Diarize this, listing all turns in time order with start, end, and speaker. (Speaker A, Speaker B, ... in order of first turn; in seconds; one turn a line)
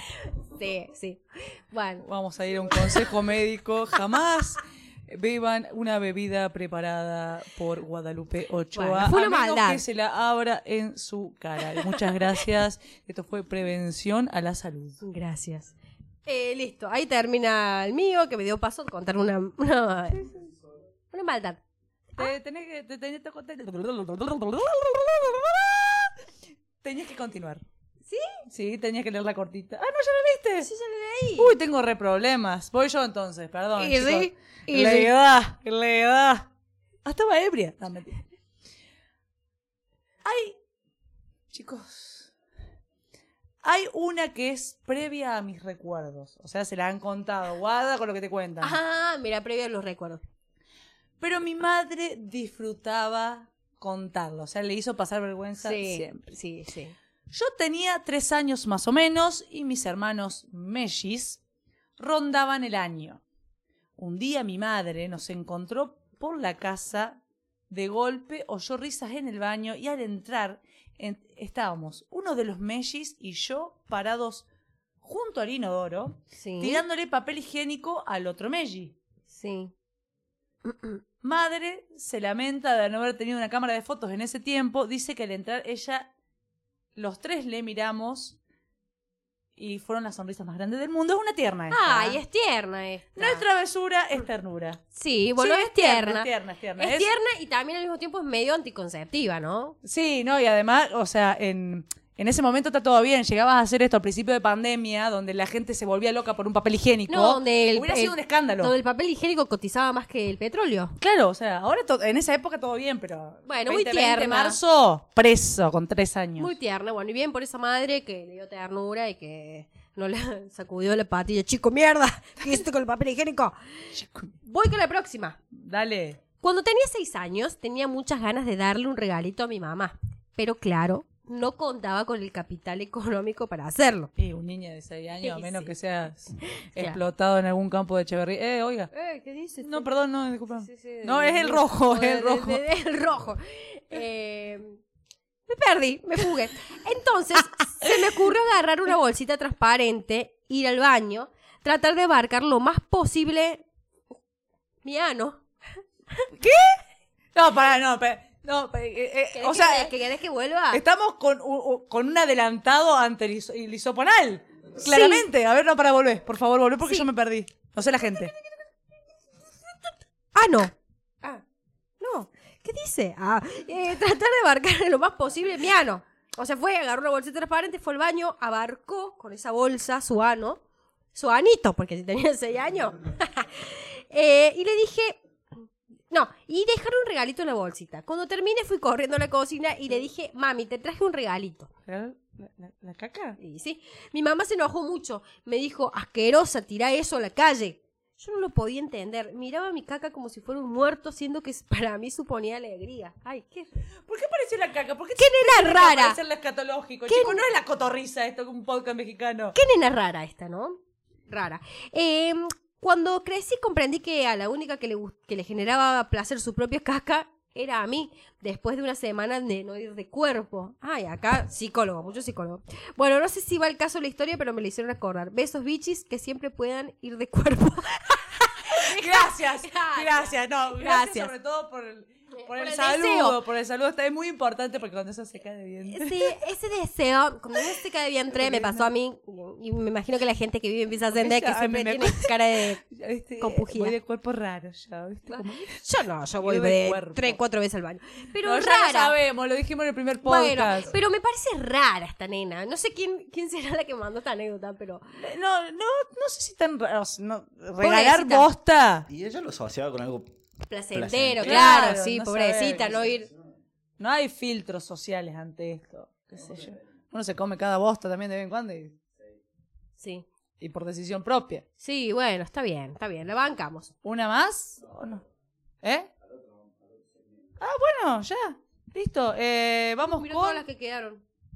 Speaker A: 0.2-2.0
Speaker B: 2.0-15.0
Speaker A: 2.7-3.1
Speaker A: 8.7-9.8
Speaker A: 11.8-12.2
Speaker A: 15.0-15.8
Speaker A: 16.3-20.3
Speaker B: 20.1-20.5
Speaker A: 21.1-21.6
Speaker B: 22.2-26.1
Speaker B: 26.8-27.6
Speaker A: 28.1-28.4
Speaker B: 28.5-30.7
Speaker A: 30.6-31.6
Speaker B: 31.4-36.5
Speaker A: 33.8-35.1
Speaker B: 37.0-38.2
Speaker B: 40.2-40.6
Speaker B: 41.5-42.3
Speaker B: 43.6-48.8
Speaker A: 48.6-50.2
Speaker B: 51.2-56.2
Speaker A: 55.6-57.0
Speaker B: 57.3-61.4
Speaker B: 62.0-63.2
Speaker B: 64.0-74.5
Speaker B: 75.0-79.0
Speaker A: 76.3-76.8
Speaker A: 79.3-79.7
Speaker A: 80.6-81.0
Speaker B: 81.2-86.1
Speaker B: 87.0-88.4
Speaker B: 89.6-92.2
Speaker A: 91.7-93.5
Speaker B: 93.2-94.8
Speaker A: 94.9-99.8
Speaker B: 95.4-97.1
Speaker B: 99.8-108.7
Speaker A: 107.1-111.0
Speaker B: 111.0-116.5
Speaker A: 113.5-114.6
Speaker A: 116.4-123.6
Speaker B: 123.9-124.3
Speaker A: 124.4-125.4
Speaker B: 125.5-126.2
Speaker A: 126.4-134.1
Speaker B: 134.2-138.9
Speaker A: 135.2-135.7
Speaker A: 136.5-137.0
Speaker A: 138.9-139.9
Speaker B: 139.6-142.6
Speaker A: 140.6-144.8
Speaker A: 145.5-153.6
Speaker A: 154.8-155.4
Speaker B: 156.4-156.8
Speaker B: 157.3-159.9
Speaker A: 159.3-160.8
Speaker B: 160.7-168.3
Speaker A: 164.8-165.3
Speaker A: 170.3-171.4
Speaker A: 172.0-180.6
Speaker A: 181.1-185.2
Speaker A: 186.1-191.7
Speaker B: 191.9-193.4
Speaker A: 193.4-203.8
Speaker B: 204.1-209.6
Speaker A: 205.2-206.2
Speaker A: 207.1-207.4
Speaker A: 209.6-231.3
Speaker B: 228.8-236.3
Speaker A: 232.4-233.4
Speaker A: 235.9-242.8
Speaker B: 238.3-238.9
Speaker B: 241.1-245.8
Speaker A: 243.4-243.9
Speaker A: 245.3-249.1
Speaker B: 246.4-247.4
Speaker B: 248.4-250.9
Speaker A: 250.2-255.1
Speaker B: 255.2-259.1
Speaker A: 257.8-258.5
Speaker C: 259.1-260.3
Speaker A: 260.7-263.3
Speaker C: 260.9-261.6
Speaker B: 261.4-263.1
Speaker B: 264.0-269.0
Speaker A: 270.0-270.3
Speaker B: 270.6-271.6
Speaker A: 271.8-273.9
Speaker B: 274.0-275.2
Speaker B: 275.8-276.1
Speaker B: 277.6-280.6
Speaker A: 280.0-281.2